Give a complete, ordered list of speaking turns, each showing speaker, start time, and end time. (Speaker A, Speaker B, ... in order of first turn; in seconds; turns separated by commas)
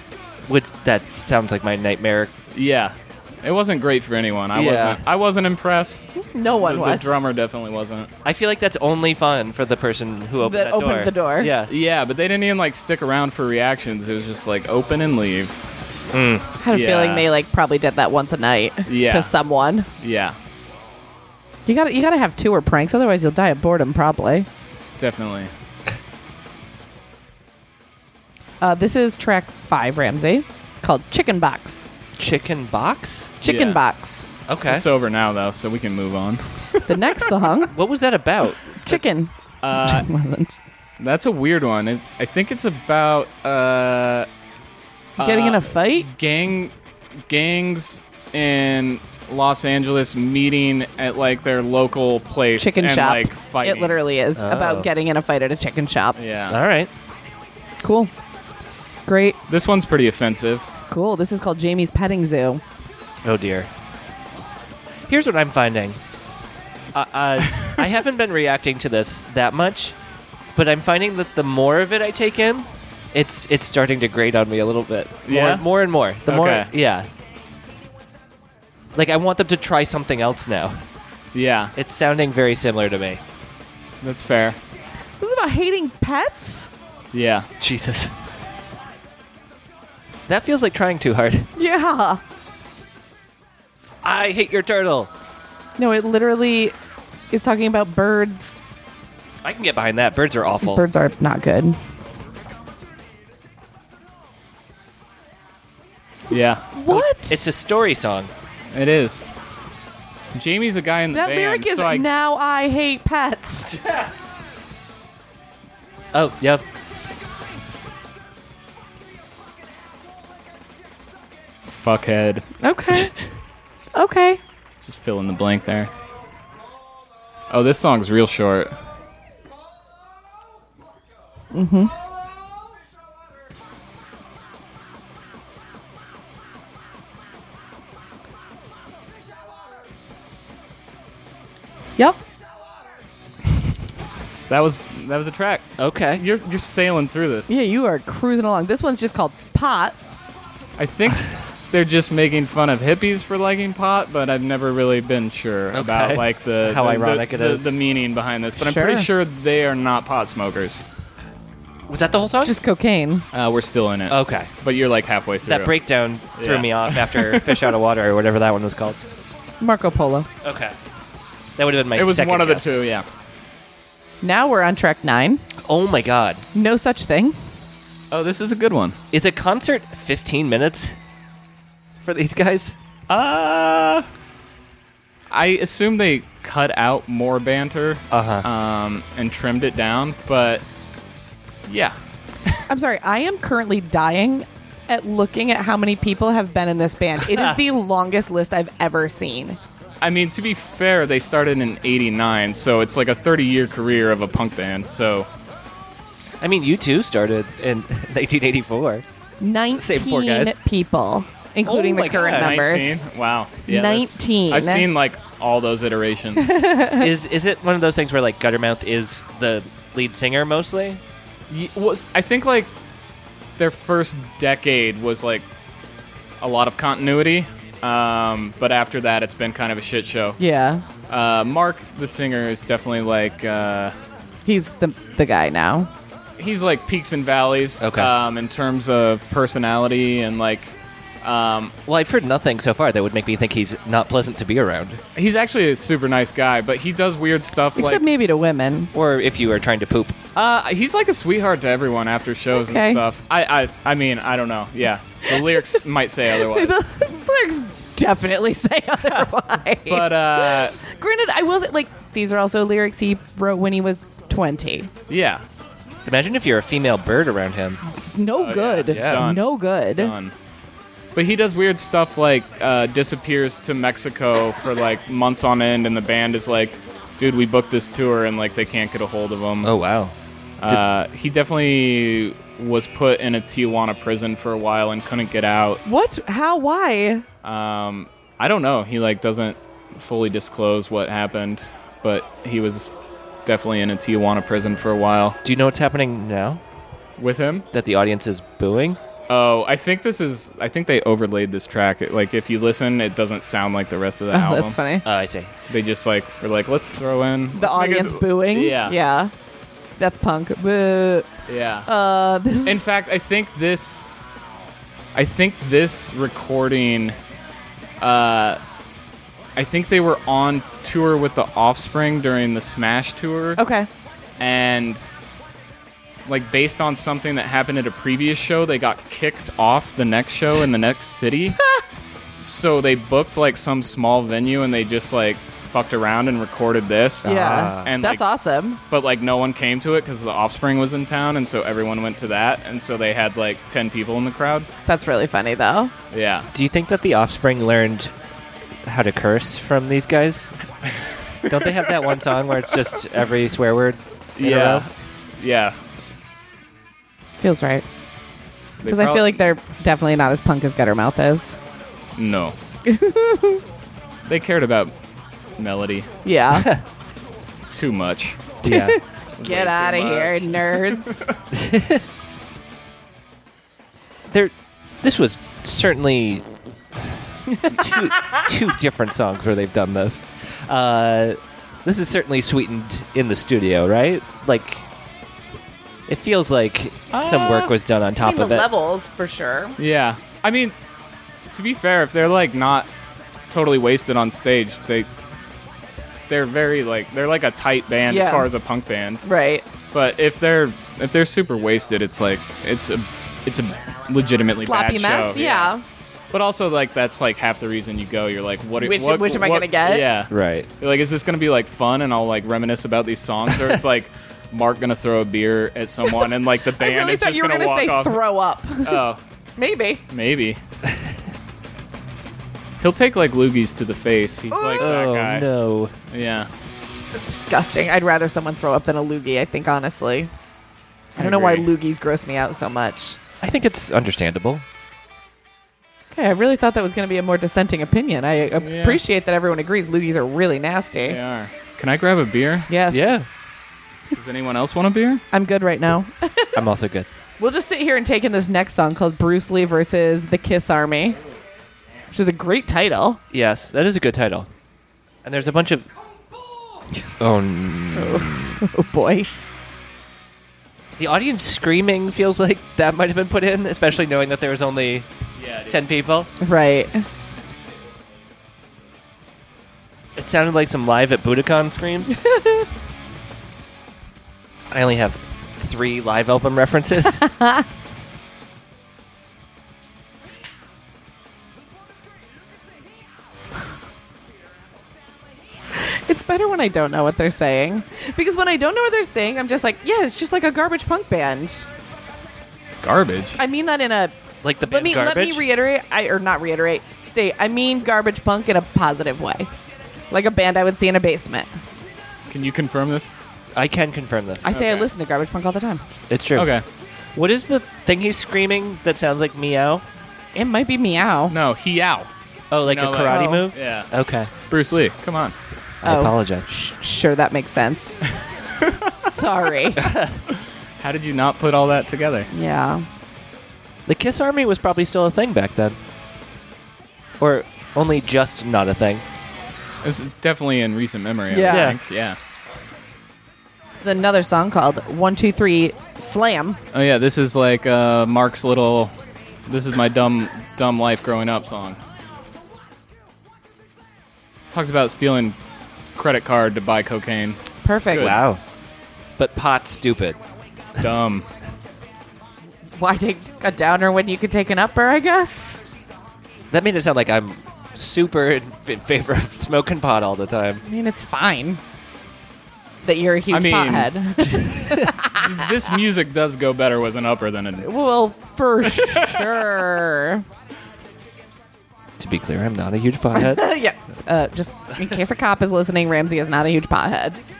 Speaker A: 0.5-2.3, Speaker B: 2.5-8.1, Speaker A: 4.5-5.0, Speaker C: 6.2-7.2, Speaker A: 8.2-11.7, Speaker C: 10.4-11.5, Speaker B: 11.7-15.6, Speaker A: 16.1-16.5, Speaker C: 16.6-19.9, Speaker B: 16.7-17.3, Speaker B: 18.9-19.3, Speaker B: 20.0-20.4, Speaker C: 21.6-24.5, Speaker B: 25.0-25.5, Speaker C: 28.6-31.9, Speaker A: 32.2-33.3, Speaker C: 33.4-34.3, Speaker B: 33.4-33.8, Speaker A: 34.5-34.9, Speaker B: 34.7-36.8, Speaker C: 36.9-37.7, Speaker A: 37.7-38.8, Speaker C: 38.8-40.6, Speaker B: 39.6-40.1, Speaker B: 41.0-44.3, Speaker B: 45.2-46.7, Speaker C: 45.2-46.1, Speaker B: 47.3-54.0, Speaker C: 52.6-56.1, Speaker A: 54.4-54.9, Speaker B: 56.1-56.6, Speaker A: 56.5-56.9, Speaker C: 57.8-58.1, Speaker C: 59.1-59.4, Speaker B: 59.5-60.7, Speaker C: 60.9-62.6, Speaker A: 63.2-63.7, Speaker A: 65.1-66.0, Speaker A: 66.9-70.0, Speaker A: 70.5-77.1, Speaker B: 75.2-75.7, Speaker B: 76.2-76.7, Speaker A: 78.9-80.8, Speaker B: 81.3-81.7, Speaker A: 81.8-83.2, Speaker B: 84.0-84.6, Speaker C: 85.2-86.7, Speaker B: 87.1-87.5, Speaker A: 87.6-88.1, Speaker A: 90.3-91.5, Speaker C: 91.5-92.2, Speaker A: 94.0-95.1, Speaker C: 95.8-96.7, Speaker C: 97.3-98.6, Speaker A: 99.4-100.8, Speaker C: 100.6-101.8, Speaker B: 106.3-106.7, Speaker C: 106.7-107.5, Speaker A: 106.9-108.3, Speaker B: 108.7-109.3, Speaker B: 110.3-112.1, Speaker C: 111.1-113.8, Speaker A: 116.1-116.6, Speaker B: 121.7-122.5, Speaker C: 122.6-123.1, Speaker C: 123.9-124.4, Speaker B: 124.8-125.9, Speaker B: 127.5-128.8, Speaker C: 131.5-131.9, Speaker B: 144.5-147.5, Speaker A: 145.8-146.2, Speaker C: 147.5-150.0, Speaker B: 150.8-160.8, Speaker A: 155.7-157.8, Speaker C: 158.6-159.1, Speaker A: 161.9-162.6, Speaker C: 162.4-163.2, Speaker B: 163.3-165.7, Speaker A: 164.1-164.5, Speaker A: 165.4-169.0, Speaker B: 166.4-167.7, Speaker C: 169.6-170.3, Speaker A: 170.4-170.8, Speaker A: 171.6-172.8, Speaker B: 171.9-173.1, Speaker C: 174.2-175.4, Speaker A: 175.6-176.4, Speaker C: 176.5-177.4, Speaker B: 178.1-178.9, Speaker A: 179.1-180.9, Speaker A: 182.0-182.8, Speaker B: 183.1-184.1, Speaker B: 185.3-190.6, Speaker A: 188.1-188.4, Speaker B: 191.7-191.9, Speaker C: 192.7-199.6, Speaker A: 197.3-197.6, Speaker B: 200.0-205.3, Speaker A: 206.4-209.0, Speaker C: 209.4-213.1, Speaker A: 209.8-210.5, Speaker A: 211.6-212.6, Speaker B: 212.3-216.5, Speaker C: 213.7-214.9, Speaker C: 216.4-217.1, Speaker A: 217.0-221.0, Speaker B: 221.5-222.7, Speaker B: 223.6-225.4, Speaker B: 226.4-230.4, Speaker C: 230.4-230.8, Speaker B: 231.1-233.9, Speaker C: 234.4-235.9, Speaker B: 236.4-241.7, Speaker A: 237.8-238.1, Speaker A: 241.9-245.0, Speaker B: 245.1-248.0, Speaker C: 247.8-248.9, Speaker A: 248.9-250.2, Speaker B: 250.3-256.8, Speaker C: 252.6-253.0, Speaker C: 255.2-255.8, Speaker C: 256.4-264.9, Speaker B: 259.9-260.8, Speaker B: 265.1-265.4, Speaker A: 266.0-267.8, Speaker C: 267.8-270.1, Speaker B: 268.3-270.3, Speaker A: 268.9-269.3, Speaker B: 271.1-279.7, Speaker A: 279.6-280.1, Speaker B: 280.6-285.8, Speaker C: 285.8-287.2, Speaker B: 287.4-292.9, Speaker B: 293.4-295.4, Speaker A: 295.4-296.6, Speaker B: 297.2-297.7, Speaker A: 297.7-299.0, Speaker B: 299.3-304.8, Speaker C: 304.3-305.0, Speaker A: 305.0-305.5, Speaker B: 305.7-308.9, Speaker C: 307.5-309.3, Speaker C: 310.0-311.3, Speaker B: 311.5-311.9, Speaker C: 311.9-312.8, Speaker B: 312.6-314.3, Speaker B: 315.1-317.2, Speaker B: 318.0-318.6, Speaker B: 319.6-323.6, Speaker C: 323.6-323.9, Speaker B: 324.4-325.1, Speaker B: 326.3-331.6, Speaker B: 332.4-338.2, Speaker A: 337.2-337.9, Speaker C: 337.2-338.8, Speaker B: 338.9-344.7, Speaker C: 344.9-345.9, Speaker B: 346.1-346.5, Speaker A: 346.5-348.1, Speaker A: 348.8-350.5, Speaker B: 351.4-352.1, Speaker A: 351.4-354.9, Speaker B: 354.4-355.8, Speaker C: 357.4-357.8, Speaker B: 358.8-359.4, Speaker C: 358.8-361.6, Speaker B: 362.1-362.6, Speaker C: 362.8-363.6, Speaker B: 364.2-364.9, Speaker B: 365.6-366.1, Speaker C: 366.2-366.7, Speaker A: 366.5-366.8, Speaker B: 367.7-368.4, Speaker A: 368.6-369.0, Speaker C: 368.6-371.3, Speaker B: 369.4-371.3, Speaker A: 371.5-372.0, Speaker A: 374.3-376.4, Speaker C: 377.5-378.5, Speaker A: 377.6-384.9, Speaker A: 386.1-388.7, Speaker B: 387.1-387.7, Speaker C: 388.2-389.8, Speaker B: 389.8-390.7, Speaker B: 391.5-392.9, Speaker B: 393.5-395.1, Speaker B: 396.3-399.2, Speaker C: 398.1-398.5, Speaker C: 399.2-399.6, Speaker B: 399.9-405.7, Speaker C: 404.6-405.8, Speaker B: 406.3-418.2, Speaker C: 408.8-410.1, Speaker A: 410.3-410.7, Speaker C: 416.7-419.0, Speaker B: 418.8-419.2, Speaker C: 419.6-420.0, Speaker B: 420.1-420.6, Speaker B: 422.8-425.5, Speaker C: 424.5-424.9, Speaker A: 424.8-425.9, Speaker B: 426.1-426.5, Speaker C: 427.1-430.3, Speaker C: 431.1-433.2, Speaker B: 431.2-431.7, Speaker A: 433.4-434.6, Speaker C: 436.1-441.2, Speaker B: 438.6-439.0, Speaker B: 441.1-442.7, Speaker C: 442.7-443.1, Speaker A: 442.9-443.3, Speaker B: 444.1-445.2, Speaker C: 445.3-446.6, Speaker A: 446.5-447.1, Speaker C: 447.4-451.2, Speaker C: 452.1-453.2, Speaker A: 453.3-454.5, Speaker A: 455.2-455.9, Speaker A: 457.2-458.6, Speaker C: 457.9-459.3, Speaker A: 461.0-465.1, Speaker B: 465.4-465.9, Speaker A: 465.6-466.3, Speaker C: 466.4-467.0, Speaker A: 470.1-472.2, Speaker C: 472.2-472.6, Speaker A: 474.7-477.2, Speaker C: 477.2-477.6, Speaker C: 485.7-491.7, Speaker B: 492.8-493.4, Speaker C: 493.4-499.5, Speaker A: 494.4-495.4, Speaker C: 500.1-501.5, Speaker B: 502.3-503.1, Speaker A: 503.5-504.5, Speaker C: 504.4-505.8, Speaker B: 504.5-504.9, Speaker A: 506.1-506.5, Speaker B: 506.3-506.6, Speaker A: 507.1-509.8, Speaker C: 510.3-511.3, Speaker B: 511.3-512.1, Speaker A: 512.5-514.3, Speaker B: 512.6-513.9, Speaker C: 513.1-513.5, Speaker B: 514.5-515.3, Speaker A: 515.8-516.5, Speaker C: 515.8-518.0, Speaker C: 518.8-519.9, Speaker A: 519.8-520.2, Speaker B: 520.3-522.3, Speaker C: 522.3-522.9, Speaker A: 523.9-525.8, Speaker A: 527.2-529.0, Speaker B: 529.8-532.2, Speaker C: 531.3-531.8, Speaker A: 531.5-531.8, Speaker C: 533.8-536.6, Speaker B: 536.7-538.9, Speaker B: 539.5-541.8, Speaker B: 544.5-545.4, Speaker B: 546.0-547.4, Speaker C: 547.6-548.2, Speaker B: 547.9-548.2, Speaker A: 547.9-548.4, Speaker A: 549.2-550.2, Speaker B: 550.8-551.2, Speaker C: 552.7-555.6, Speaker A: 556.5-560.6, Speaker C: 560.6-561.6, Speaker C: 562.8-565.5, Speaker B: 563.3-564.1, Speaker A: 564.4-564.9, Speaker B: 564.9-567.7, Speaker C: 567.6-570.2, Speaker B: 568.7-569.3, Speaker A: 572.0-573.5, Speaker C: 573.1-577.2